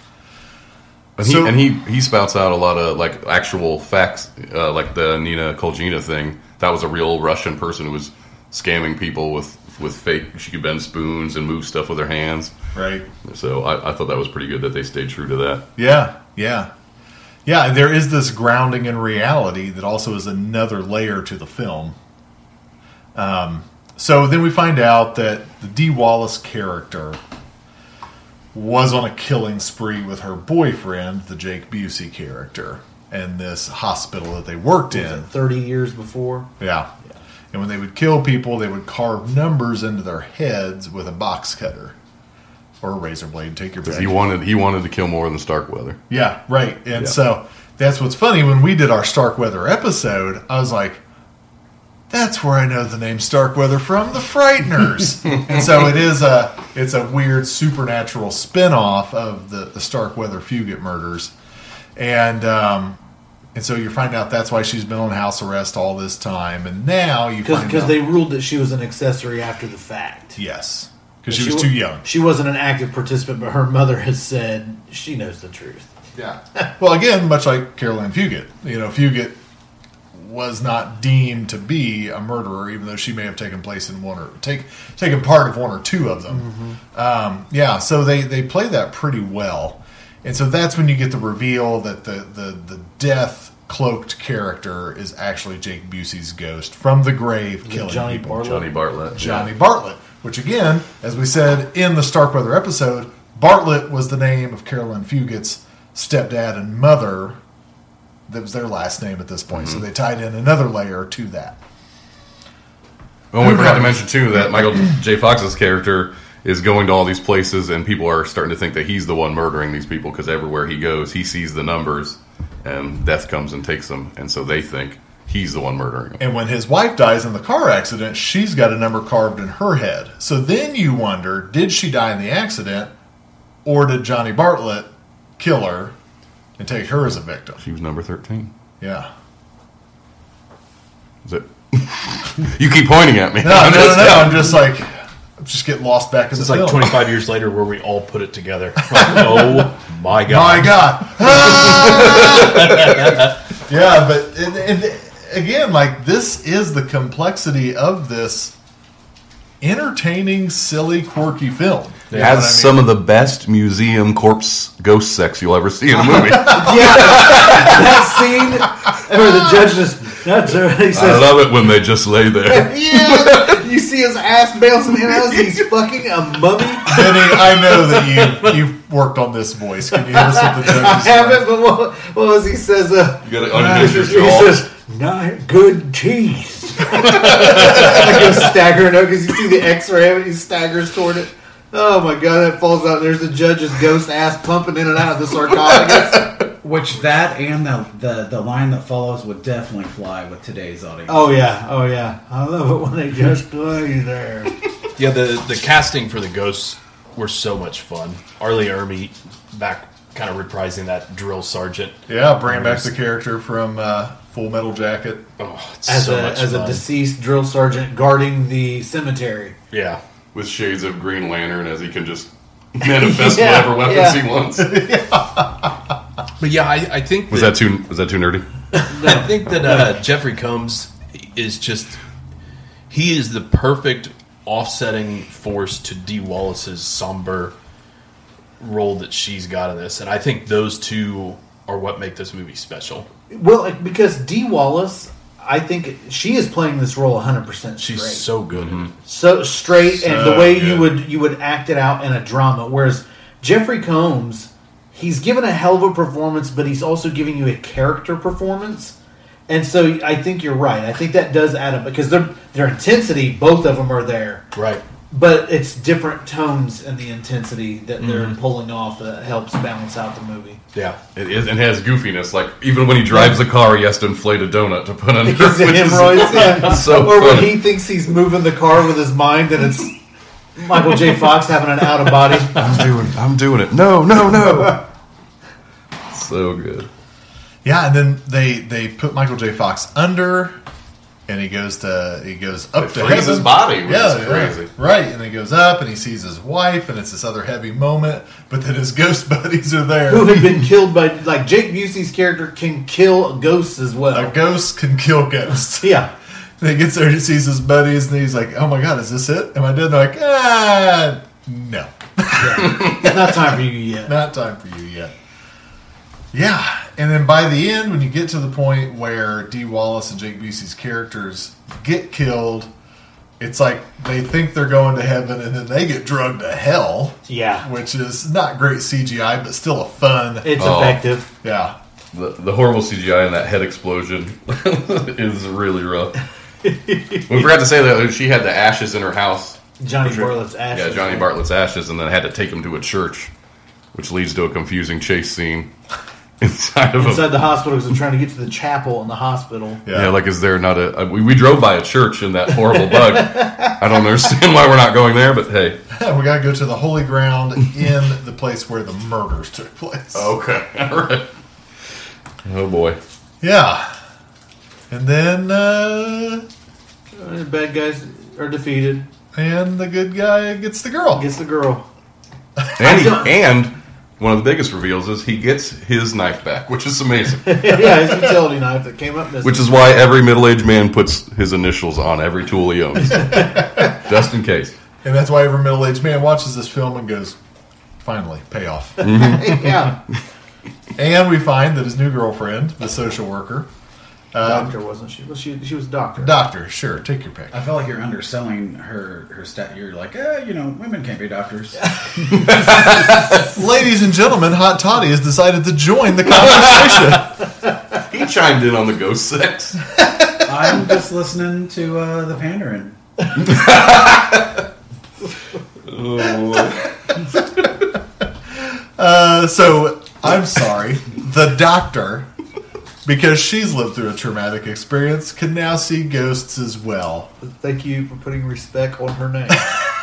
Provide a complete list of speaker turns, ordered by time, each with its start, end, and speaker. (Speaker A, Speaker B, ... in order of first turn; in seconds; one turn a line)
Speaker A: 1.2-12.5
Speaker B: 1.2-1.6
Speaker B: 12.7-13.1
Speaker A: 13.2-15.6
Speaker B: 15.8-16.7
Speaker B: 17.4-21.9
Speaker B: 23.1-27.2
Speaker B: 28.5-35.3
Speaker C: 34.9-36.5
Speaker B: 36.6-36.9
Speaker B: 37.5-42.0
Speaker B: 42.8-44.1
Speaker A: 43.8-46.0
Speaker B: 46.1-51.0
Speaker B: 52.1-61.3
Speaker B: 62.0-63.0
Speaker B: 63.5-68.1
Speaker C: 67.4-70.4
Speaker B: 70.3-72.0
Speaker C: 71.3-75.9
Speaker B: 76.1-79.4
Speaker B: 80.1-98.5
Speaker C: 86.3-86.8
Speaker C: 97.6-98.8
Speaker A: 98.4-99.5
Speaker B: 99.1-107.4
Speaker B: 108.3-111.6
Speaker A: 109.5-109.8
Speaker A: 113.3-126.2
Speaker B: 113.4-114.0
Speaker B: 126.2-132.9
Speaker B: 133.6-135.9
Speaker B: 136.6-137.6
Speaker A: 137.6-138.5
Speaker B: 138.8-139.1
Speaker A: 141.2-144.5
Speaker B: 143.4-146.9
Speaker D: 146.3-153.3
Speaker B: 148.9-149.7
Speaker B: 150.3-158.5
Speaker A: 151.8-152.4
Speaker B: 159.6-162.9
Speaker D: 162.1-162.5
Speaker A: 162.2-167.9
Speaker B: 166.1-167.3
Speaker C: 166.3-171.7
Speaker A: 170.9-173.6
Speaker C: 172.4-178.5
Speaker B: 176.8-181.4
Speaker C: 180.1-196.4
Speaker A: 183.2-184.7
Speaker B: 183.5-184.1
Speaker A: 187.0-188.2
Speaker A: 195.9-196.2
Speaker E: 196.6-201.4
Speaker C: 201.1-204.6
Speaker D: 205.0-212.8
Speaker B: 212.1-215.2
Speaker D: 215.4-216.8
Speaker C: 215.9-219.6
Speaker D: 219.7-220.0
Speaker A: 220.3-224.8
Speaker C: 222.8-224.3
Speaker B: 224.6-225.8
Speaker D: 226.4-227.6
Speaker A: 227.3-228.4
Speaker C: 228.7-229.9
Speaker D: 229.0-232.0
Speaker D: 232.9-237.5
Speaker D: 238.6-243.1
Speaker C: 243.3-248.3
Speaker D: 247.8-248.9
Speaker A: 248.5-248.9
Speaker C: 249.0-258.9
Speaker B: 249.9-250.9
Speaker C: 259.5-264.4
Speaker D: 264.5-264.8
Speaker C: 265.1-270.6
Speaker D: 268.0-268.4
Speaker D: 270.7-271.0
Speaker A: 271.1-277.6
Speaker C: 275.2-279.9
Speaker C: 280.6-282.8
Speaker A: 282.5-284.9
Speaker A: 286.1-286.9
Speaker B: 287.6-290.5
Speaker B: 291.3-300.6
Speaker A: 292.8-294.7
Speaker C: 300.1-304.3
Speaker B: 304.1-306.0
Speaker C: 305.8-306.1
Speaker B: 306.6-315.1
Speaker C: 312.4-314.1
Speaker B: 316.3-322.7
Speaker B: 323.4-330.8
Speaker C: 327.3-327.7
Speaker C: 330.4-331.3
Speaker A: 330.6-331.0
Speaker B: 331.4-331.8
Speaker A: 332.1-336.2
Speaker C: 336.6-337.5
Speaker A: 337.2-343.3
Speaker C: 339.8-341.3
Speaker A: 343.9-345.7
Speaker A: 346.4-347.4
Speaker C: 347.0-349.8
Speaker B: 349.9-350.1
Speaker A: 349.9-355.8
Speaker C: 353.1-353.7
Speaker B: 355.9-360.3
Speaker A: 360.1-361.3
Speaker A: 362.4-363.0
Speaker B: 363.4-363.9
Speaker B: 364.9-366.4
Speaker C: 367.1-369.1
Speaker B: 369.3-371.2
Speaker C: 371.1-371.9
Speaker A: 372.8-378.0
Speaker C: 372.8-373.3
Speaker C: 377.4-379.7
Speaker A: 379.4-384.7
Speaker B: 385.0-387.4
Speaker B: 388.0-389.3
Speaker A: 389.0-389.9
Speaker C: 389.0-390.0
Speaker B: 391.0-393.7
Speaker B: 394.3-394.7
Speaker C: 394.4-396.3
Speaker B: 396.2-397.5
Speaker E: 397.5-401.9
Speaker A: 402.6-403.1
Speaker B: 403.3-407.3
Speaker A: 406.4-407.2
Speaker A: 408.0-409.8
Speaker E: 410.4-413.0
Speaker A: 413.4-414.6
Speaker A: 415.9-416.9
Speaker B: 418.5-422.3
Speaker B: 423.0-427.3
Speaker C: 427.4-429.8